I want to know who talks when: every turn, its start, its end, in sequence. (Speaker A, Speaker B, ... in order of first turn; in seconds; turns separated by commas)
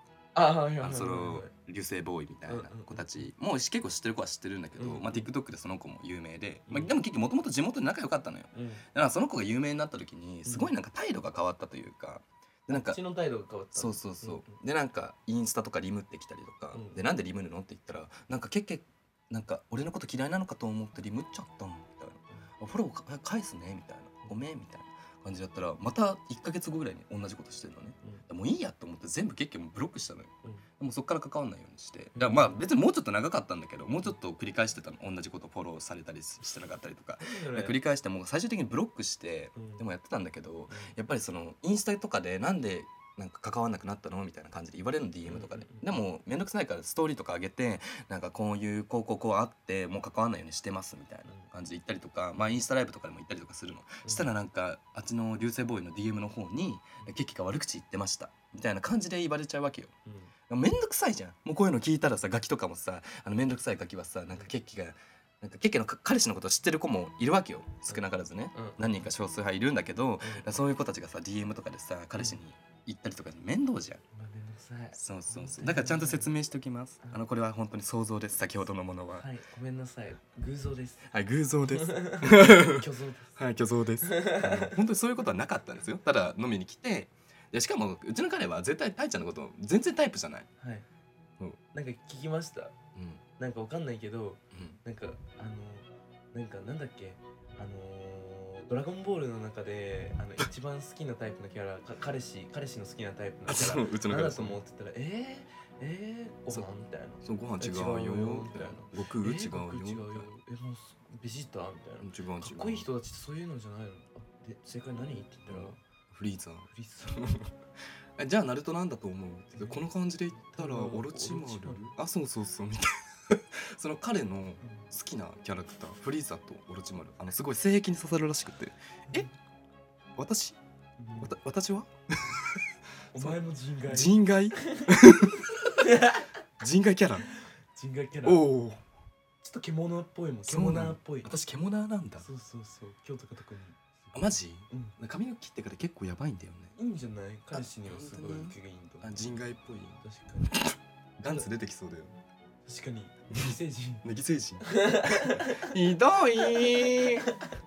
Speaker A: 0.3-1.5, Speaker B: 0.8-13.0, Speaker A: 2.5-3.3, Speaker A: 4.8-5.2, Speaker A: 6.7-7.0, Speaker A: 8.5-8.8, Speaker A: 10.4-10.7, Speaker A: 12.7-14.6, Speaker B: 13.7-59.9, Speaker A: 16.7-17.0, Speaker A: 32.1-32.7, Speaker A: 37.2-37.8, Speaker A: 39.5-39.9, Speaker A: 40.7-40.9, Speaker A: 45.2-45.9, Speaker A: 51.2-51.5, Speaker A: 54.0-54.3, Speaker A: 60.0-60.3, Speaker B: 60.5-74.0, Speaker A: 67.9-69.1, Speaker A: 70.2-70.5, Speaker A: 72.2-72.4, Speaker A: 74.1-76.3, Speaker B: 74.9-79.3, Speaker A: 79.1-81.1, Speaker B: 81.1-90.5, Speaker A: 81.8-83.5, Speaker A: 84.0-84.8, Speaker A: 90.6-90.9, Speaker A: 91.7-92.8, Speaker B: 92.9-93.2, Speaker A: 93.4-115.8, Speaker B: 94.5-94.8, Speaker B: 103.5-104.6, Speaker B: 107.2-110.3, Speaker B: 112.0-112.9, Speaker B: 115.5-117.5, Speaker A: 116.7-117.4, Speaker B: 118.2-129.3, Speaker A: 119.5-119.8, Speaker A: 120.3-121.9, Speaker A: 124.6-124.9, Speaker B: 130.2-130.6, Speaker A: 131.0-131.4, Speaker B: 131.2-132.6, Speaker A: 133.1-134.9, Speaker B: 133.1-135.8, Speaker A: 135.8-136.3, Speaker B: 136.6-137.3, Speaker A: 137.7-138.4, Speaker B: 138.2-138.8, Speaker A: 139.4-141.3, Speaker B: 140.4-142.3, Speaker A: 142.2-144.9, Speaker B: 144.1-146.8, Speaker A: 146.8-149.3, Speaker B: 147.5-152.2, Speaker A: 150.0-150.6, Speaker A: 151.2-151.5, Speaker A: 152.6-154.1, Speaker B: 153.3-157.4, Speaker A: 154.6-155.7, Speaker A: 156.5-157.0